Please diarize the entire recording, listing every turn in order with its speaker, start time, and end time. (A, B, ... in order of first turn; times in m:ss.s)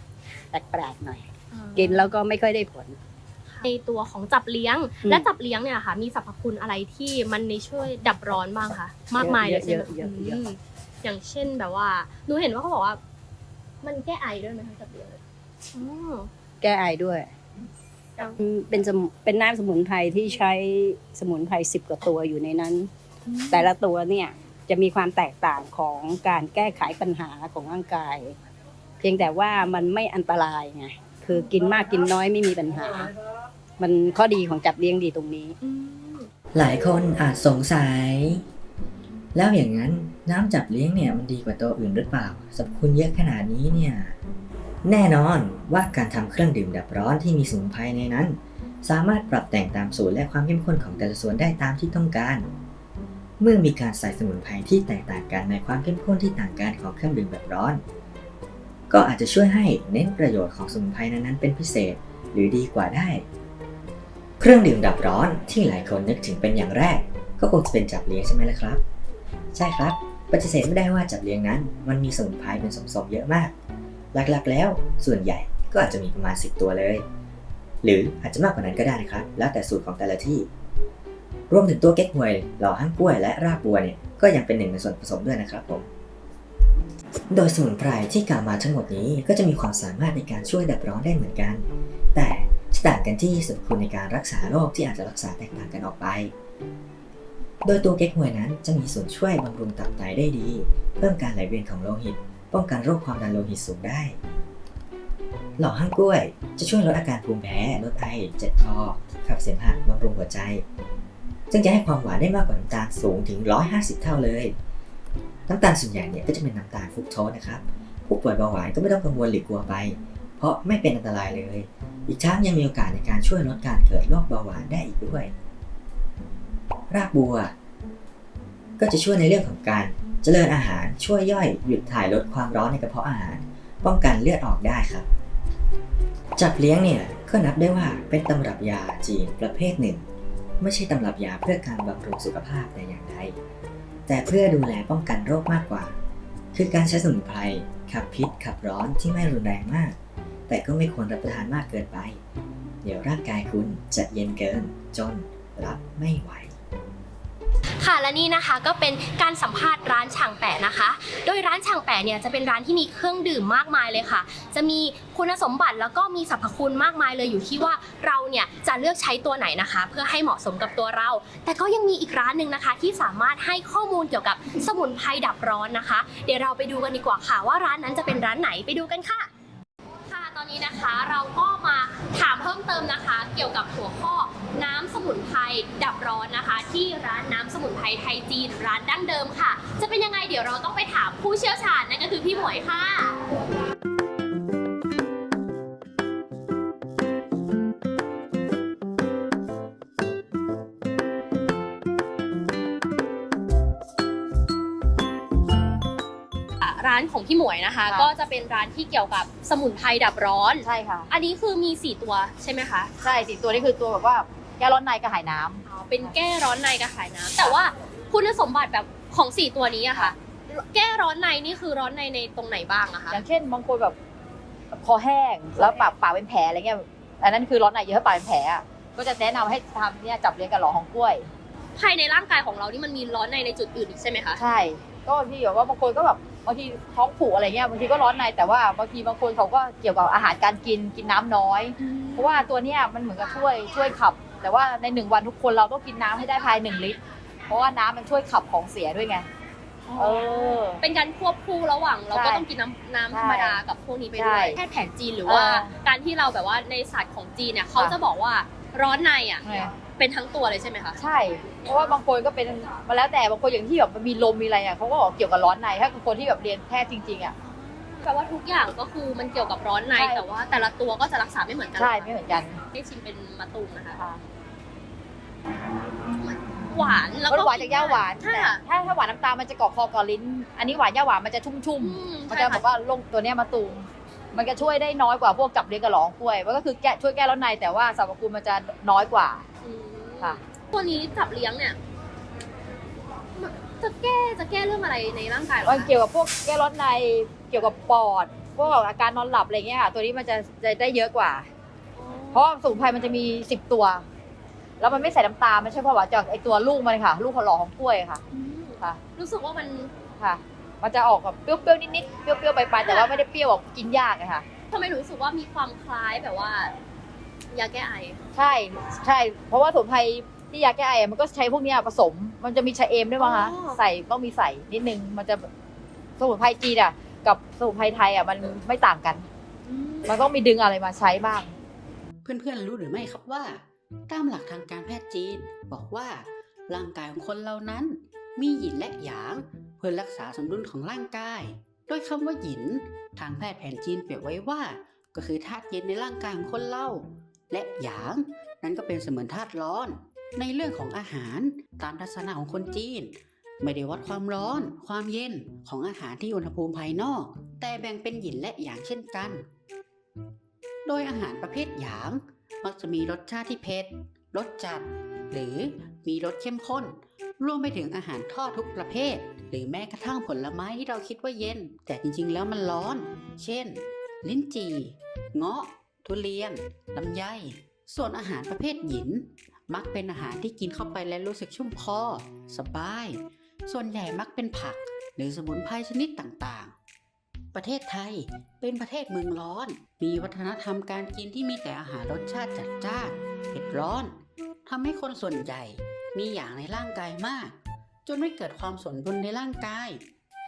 0:00.5-0:03.0 A
0:01.5-0:02.2 B
0:03.5-0:13.0 B
0:09.2-0:10.4 A
0:13.8-0:15.2 B
0:15.7-0:16.3 B
0:16.6-0:17.3 A
0:18.4-0:22.9 A
0:23.3-0:23.7 B
0:23.5-0:28.4 A
0:29.0-0:33.1 A
0:33.8-0:35.5 A
0:35.6-0:36.3 B
0:36.5-0:38.4 C
0:39.3-0:44.2 C
0:44.8-0:52.5 C
0:53.4-0:57.8 C
0:58.9-1:03.2 C
1:04.4-1:08.8 C
1:09.5-1:13.5 C
1:14.1-1:17.0 C
1:17.8-1:20.5 C
1:21.5-1:25.9 C
1:27.3-1:36.3 C
1:37.6-1:44.2 C
1:45.6-1:50.6 C
1:51.5-1:54.6 C
1:55.5-2:05.3 C
2:06.9-2:07.5 C
2:08.8-2:15.1 C
2:16.4-2:20.0 C
2:20.6-2:23.4 C
2:24.1-2:26.0 C
2:26.5-2:30.0 C
2:30.5-2:32.2 C
2:32.8-2:36.5 C
2:37.8-2:59.3 B
3:00.1-3:13.2 B
3:26.6-3:32.9 B
3:30.6-3:31.1 D
3:33.0-3:36.1 D
3:35.6-3:43.2 B
3:43.1-3:44.0 D
3:44.7-3:51.3 D
3:51.7-3:54.4 B
3:54.4-4:07.0 D
4:01.8-4:02.5 B
4:07.5-4:09.3 D
4:09.9-4:21.0 B
4:10.0-4:10.8 D
4:12.1-4:12.4 D
4:13.1-4:13.6 D
4:14.1-4:14.6 D
4:15.2-4:15.7 D
4:19.4-4:19.7 D
4:21.0-4:27.3 D
4:27.4-4:32.1 B
4:29.9-4:30.2 D
4:31.8-4:32.6 D
4:32.7-4:34.0 B
4:34.0-4:34.2 D
4:36.1-4:38.6 B
4:37.3-4:49.4 D
4:41.8-4:42.6 B
4:49.6-4:51.8 B
4:53.3-4:55.9 B
4:55.6-5:01.5 D
5:02.0-5:02.4 B
5:02.3-5:04.0 D
5:04.8-5:08.2 D
5:08.3-5:09.9 B
5:10.2-5:14.4 D
5:12.8-5:13.2 B
5:14.7-5:16.7 B
5:17.5-5:18.2 B
5:18.3-5:25.5 D
5:23.2-5:23.8 B
5:26.2-5:29.3 D
5:29.7-5:30.2 B
5:30.1-5:31.5 D
5:32.2-5:59.4 E
6:00.8-6:26.8 E
6:27.5-6:40.0 E